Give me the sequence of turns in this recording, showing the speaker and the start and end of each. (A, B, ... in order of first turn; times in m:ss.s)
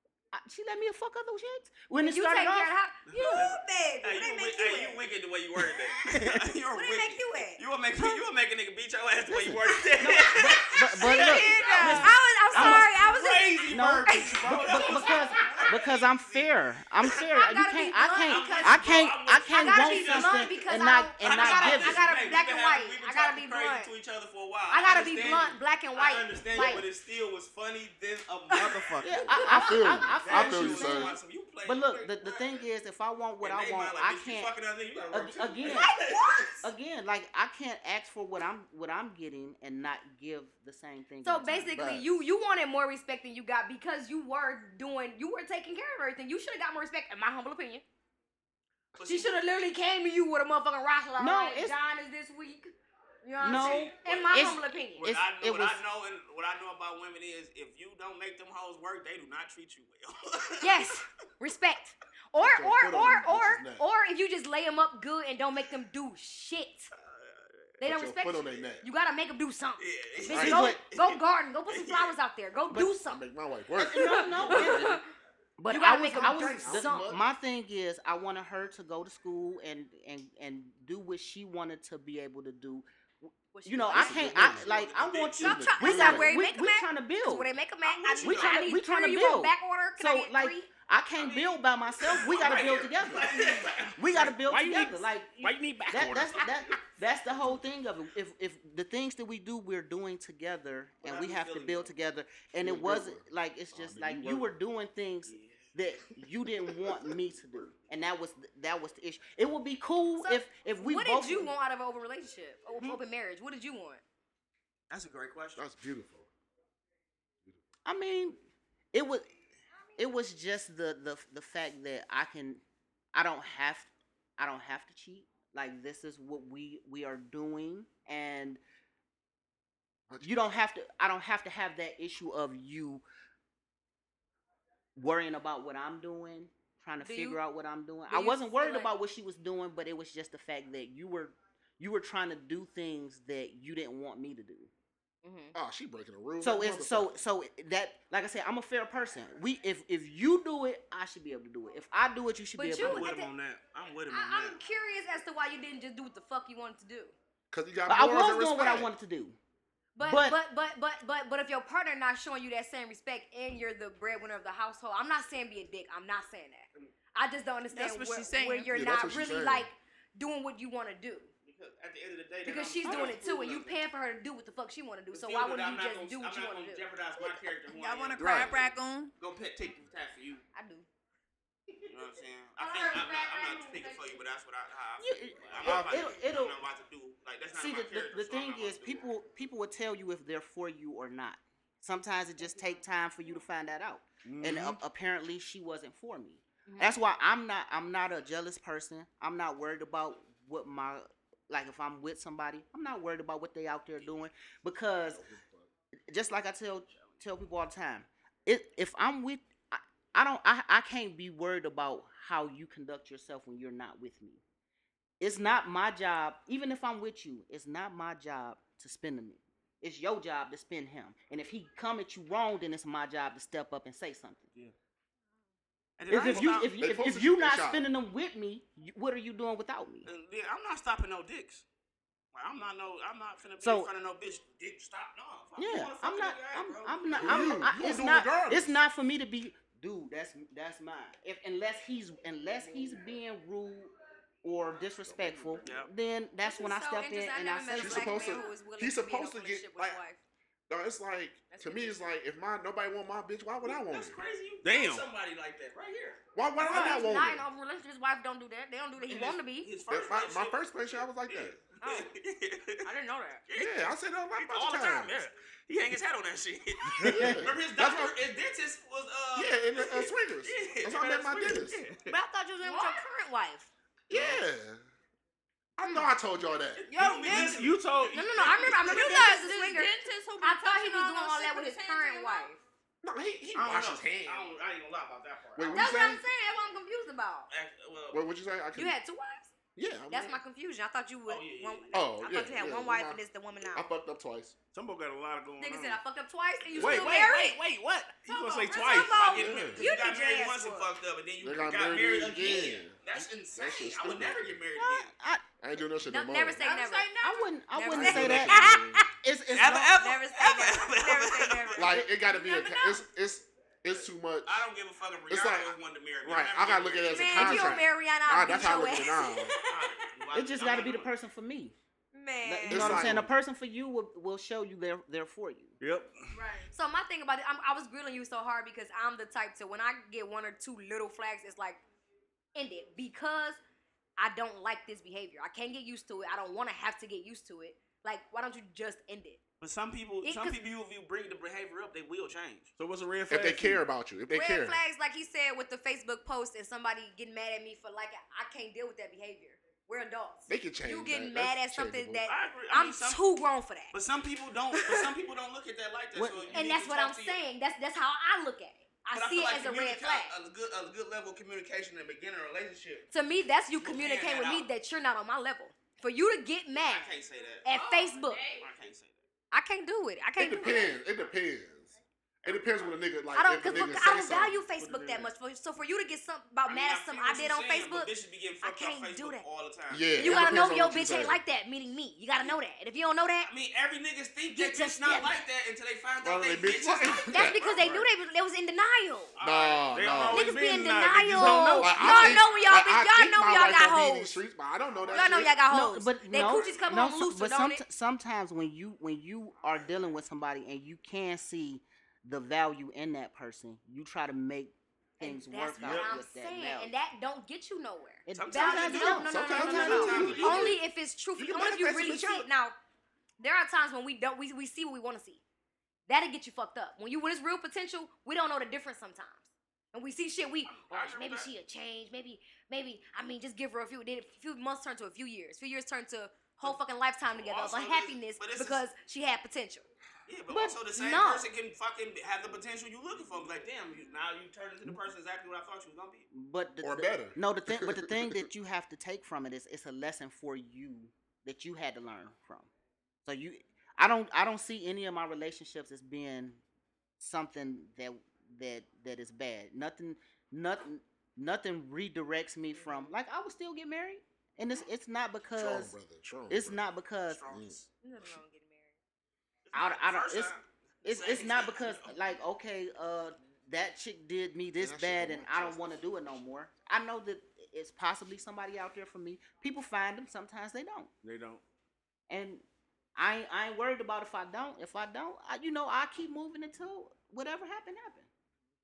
0:00.3-0:02.7 A
0:02.0-0:05.0 B
0:03.1-0:17.3 C
0:06.1-0:06.4 A
0:06.7-0:07.6 B
0:09.3-0:12.9 A
0:11.0-0:12.2 D
0:11.1-0:15.7 B
0:13.7-0:22.1 A
0:17.3-0:23.9 B
0:18.2-0:20.6 C
0:21.2-0:32.6 C
0:24.7-0:26.8 B
0:26.5-0:26.8 A
0:28.5-0:29.8 B
0:29.0-0:34.5 A
0:29.3-0:31.2 E
0:33.4-0:36.6 C
0:35.1-0:35.9 A
0:35.6-0:36.5 B
0:36.6-0:42.0 A
0:41.2-0:47.8 B
0:49.0-0:49.4 C
0:49.0-0:55.1 B
0:51.2-0:51.8 A
0:53.4-0:55.8 A
0:53.4-1:00.9 C
1:00.6-1:06.9 B
1:02.4-1:03.8 E
1:06.9-1:07.5 C
1:07.8-1:13.2 B
1:07.8-1:08.8 E
1:09.8-1:12.1 C
1:10.3-1:10.5 E
1:10.3-1:10.8 A
1:12.7-1:15.0 E
1:13.7-1:15.0 A
1:13.9-1:15.0 B
1:15.6-1:27.5 A
1:15.7-1:17.1 B
1:16.1-1:17.2 E
1:23.5-1:24.3 B
1:23.9-1:26.3 E
1:24.2-1:25.7 C
1:25.4-1:30.7 B
1:27.8-1:28.6 C
1:28.2-1:51.5 A
1:31.1-1:34.3 C
1:34.4-1:36.5 F
1:37.3-1:37.6 E
1:41.0-1:41.9 C
1:42.6-1:44.5 E
1:45.3-1:46.2 C
1:50.2-1:54.0 B
1:54.9-1:55.6 C
1:55.6-1:56.3 E
1:57.8-1:58.4 A
1:58.9-1:59.3 A
2:00.0-2:02.6 A
2:03.1-2:08.6 A
2:10.2-2:13.0 A
2:15.0-2:24.7 A
2:17.0-2:17.4 B
2:18.1-2:18.9 B
2:25.2-2:25.5 B
2:25.5-2:27.1 E
2:26.4-2:33.1 A
2:32.6-2:33.3 B
2:32.8-2:34.6 C
2:34.1-2:37.1 B
2:37.5-2:38.9 E
2:37.9-2:39.4 A
2:40.0-2:51.3 B
2:40.0-2:40.4 A
2:47.7-2:48.7 D
2:48.7-2:49.7 E
2:51.4-2:53.8 C
2:52.4-2:56.8 B
2:55.1-2:58.6 C
2:57.6-2:59.1 D
2:58.2-2:58.6 E
2:59.2-3:00.4 C
3:00.5-3:00.9 B
3:01.9-3:09.0 C
3:02.6-3:04.2 B
3:05.0-3:06.6 A
3:05.6-3:06.0 E
3:07.5-3:25.2 A
3:14.2-3:14.8 F
3:16.7-3:16.9 B
3:25.0-3:25.7 E
3:26.1-3:34.4 A
3:26.9-3:27.2 C
3:35.2-3:44.5 A
3:46.0-3:46.7 C
3:46.1-3:50.1 A
3:46.1-3:47.8 E
3:50.0-3:51.6 C
3:52.3-3:57.7 C
3:53.6-3:53.9 A
3:55.6-4:08.4 A
3:57.1-3:58.8 E
4:05.0-4:05.8 E
4:05.6-4:05.9 C
4:06.4-4:10.2 B
4:07.7-4:10.0 E
4:10.7-4:14.2 E
4:11.5-4:12.0 B
4:13.6-4:17.0 C
4:14.6-4:15.0 F
4:16.3-4:17.4 E
4:16.6-4:19.7 B
4:19.0-4:22.9 C
4:19.9-4:21.6 E
4:21.8-4:22.1 B
4:22.8-4:23.4 B
4:23.5-4:32.2 C
4:23.6-4:25.3 E
4:27.0-4:28.1 E
4:27.0-4:27.5 A
4:29.4-4:31.8 E
4:32.1-4:33.7 B
4:32.6-4:33.0 D
4:34.1-4:34.8 E
4:35.8-4:36.8 E
4:36.8-4:39.2 C
4:36.9-4:37.6 B
4:37.2-4:37.5 D
4:37.2-4:38.3 F
4:38.1-4:42.6 B
4:38.8-4:42.5 D
4:43.0-4:44.5 E
4:43.5-4:45.9 C
4:45.6-4:46.2 E
4:45.7-4:47.5 B
4:47.5-4:48.2 C
4:48.1-4:49.0 E
4:48.7-4:49.5 B
4:49.8-4:50.4 E
4:50.1-4:53.8 B
4:51.3-4:52.0 C
4:51.9-4:53.2 E
4:53.7-4:54.6 E
4:54.7-4:56.0 F
4:55.6-4:57.6 B
4:56.7-4:59.7 F
4:56.8-4:57.1 E
4:57.0-4:57.3 D
4:58.3-4:59.3 D
4:58.3-5:00.9 B
4:58.7-5:05.1 C
4:59.4-4:59.8 E
5:01.4-5:03.0 E
5:03.5-5:04.6 E
5:04.8-5:05.5 A
5:05.6-5:06.7 E
5:06.1-5:07.1 B
5:06.6-5:07.5 D
5:07.2-5:10.0 A
5:07.7-5:09.0 B
5:07.9-5:09.0 E
5:08.1-5:08.6 D
5:09.5-5:12.0 C
5:09.9-5:13.0 B
5:11.8-5:14.6 E
5:12.3-5:12.6 D
5:14.4-5:17.8 C
5:15.3-5:19.6 E
5:17.1-5:19.9 B
5:19.7-5:21.1 C
5:20.3-5:21.7 A
5:22.1-5:23.1 B
5:22.4-5:25.7 A
5:22.7-5:23.3 E
5:25.8-5:26.2 F
5:26.3-5:26.7 D
5:26.7-5:31.8 B
5:32.5-5:33.6 B
5:34.2-5:39.4 B
5:39.6-5:42.7 C
5:40.2-5:40.6 B
5:42.8-5:43.8 F
5:43.3-5:44.8 E
5:44.3-5:53.9 B
5:50.5-5:52.2 E
5:52.2-5:53.2 C
5:53.9-5:57.4 C
5:56.1-5:56.7 A
5:56.5-6:00.3 B
5:59.1-6:03.1 C
6:03.1-6:08.4 B
6:03.8-6:04.7 C
6:06.8-6:07.6 C
6:07.7-6:08.7 D
6:08.6-6:09.2 C
6:09.5-6:11.0 B
6:10.4-6:14.6 E
6:12.4-6:13.0 C
6:13.3-6:18.1 B
6:14.8-6:15.3 F
6:16.6-6:20.6 C
6:18.6-6:19.4 B
6:19.9-6:21.4 E
6:20.1-6:23.5 B
6:23.4-6:27.9 C
6:24.6-6:25.4 B
6:26.2-6:27.6 E
6:27.3-6:29.3 B
6:29.4-6:30.4 C
6:29.4-6:30.5 E
6:29.9-6:32.4 F
6:30.3-6:34.4 B
6:31.4-6:35.6 E
6:34.9-6:35.2 C
6:35.1-6:37.8 B
6:35.6-6:46.9 A
6:45.2-6:52.7 B
6:48.3-6:50.3 A
6:48.3-6:50.8 C
6:48.8-6:50.8 E
6:51.4-6:52.5 E
6:53.4-6:55.4 B
6:56.1-7:09.9 B
7:00.6-7:01.5 C
7:07.3-7:08.8 C
7:10.3-7:16.3 C
7:10.5-7:10.8 A
7:10.9-7:11.4 B
7:16.3-7:22.7 A
7:16.8-7:18.3 E
7:23.2-7:26.6 A
7:27.2-7:36.0 A
7:35.5-7:36.8 E
7:36.5-7:37.5 A
7:37.2-7:37.9 C
7:37.5-7:37.8 E
7:38.0-7:39.0 B
7:39.6-7:42.2 C
7:39.7-7:51.1 A
7:44.8-7:46.0 E
7:51.2-7:51.6 F
7:52.3-7:52.6 A
7:53.2-7:58.3 A